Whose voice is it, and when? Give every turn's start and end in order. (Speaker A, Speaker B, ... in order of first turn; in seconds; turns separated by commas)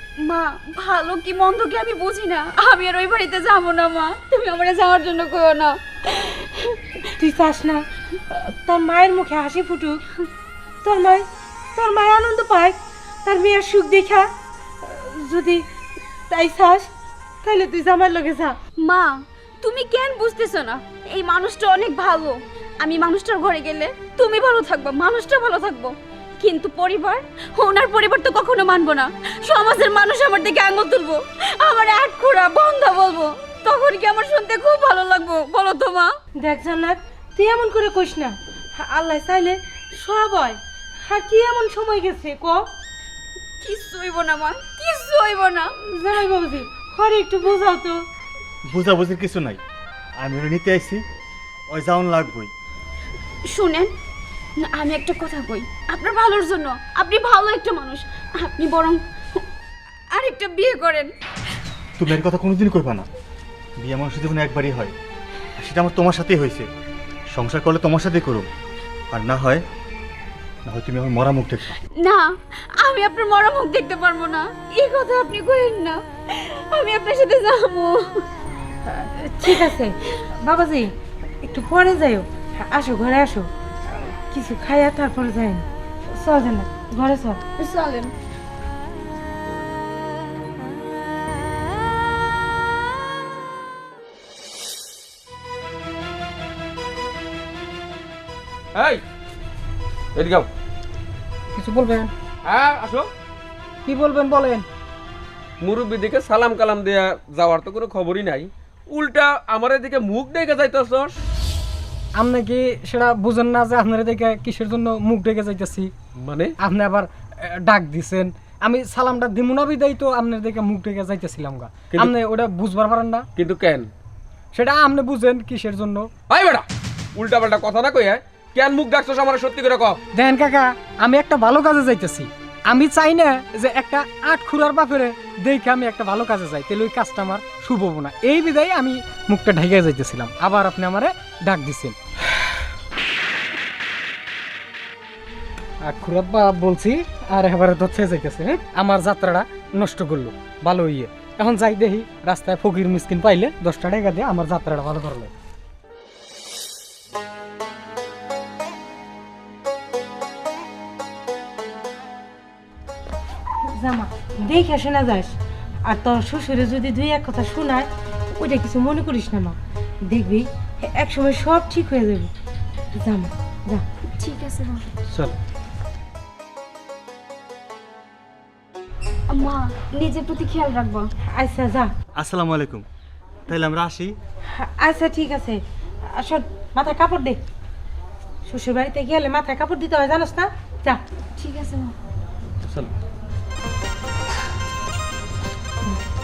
Speaker A: 0.2-6.8, Speaker B: 7.2-10.1, Speaker B: 10.8-14.3, Speaker B: 14.8-15.6, Speaker B: 16.3-16.9, Speaker B: 17.4-18.6, Speaker A: 18.8-36.1, Speaker B: 36.4-42.6, Speaker A: 43.6-45.7, Speaker B: 45.9-48.0, Speaker C: 48.7-49.6, Speaker C: 50.2-51.0, Speaker C: 51.7-52.5, Speaker A: 53.5-53.9, Speaker A: 54.6-59.4, Speaker A: 60.1-61.1, Speaker C: 62.0-63.0, Speaker C: 63.8-64.9, Speaker C: 65.6-66.7, Speaker C: 67.3-68.5, Speaker C: 69.1-69.6, Speaker C: 70.7-71.8, Speaker A: 72.0-78.2, Speaker B: 78.9-80.9, Speaker B: 81.4-87.4, Speaker A: 87.6-88.1, Speaker D: 98.7-99.0, Speaker D: 100.1-100.5, Speaker E: 101.5-102.1, Speaker D: 102.4-103.1, Speaker E: 103.8-104.6, Speaker D: 105.6-111.2, Speaker E: 112.2-115.9, Speaker D: 116.2-116.5, Speaker E: 116.6-123.2, Speaker D: 123.3-123.9, Speaker E: 124.5-126.1, Speaker D: 126.3-126.6, Speaker D: 127.2-130.0, Speaker E: 130.1-141.9, Speaker E: 145.8-155.3, Speaker B: 163.7-172.3, Speaker B: 172.9-173.8, Speaker A: 174.2-174.8, Speaker A: 179.3-181.1, Speaker B: 181.3-181.9, Speaker C: 182.2-182.8, Speaker C: 183.5-184.1, Speaker B: 184.5-187.4, Speaker B: 188.4-191.0, Speaker A: 191.4-191.9